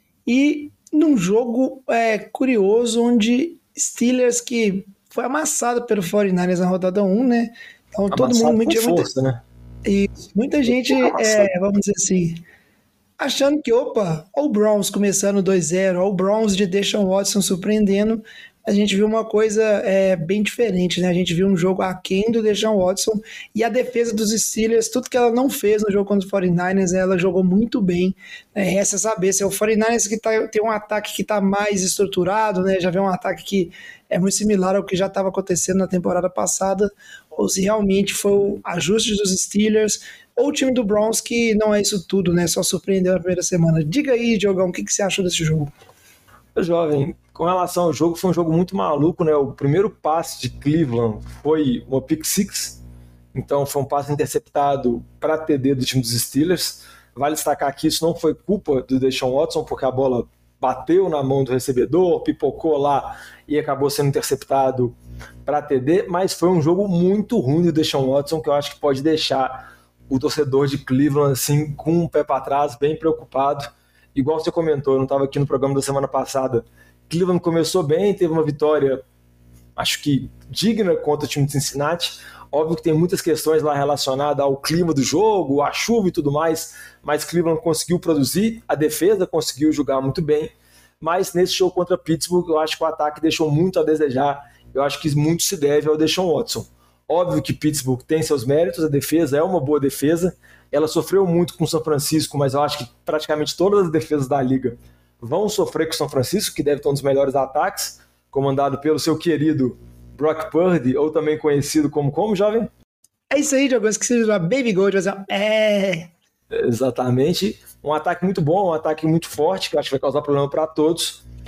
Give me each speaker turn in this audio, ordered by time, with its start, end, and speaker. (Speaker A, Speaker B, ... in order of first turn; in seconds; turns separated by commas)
Speaker A: 0.2-9.1, Speaker B: 8.1-9.4, Speaker A: 9.8-12.4, Speaker B: 10.7-11.5, Speaker A: 13.2-45.7, Speaker B: 46.5-52.8, Speaker B: 53.3-64.9, Speaker B: 65.5-79.0, Speaker B: 79.8-112.7, Speaker A: 113.3-116.1, Speaker B: 116.5-121.2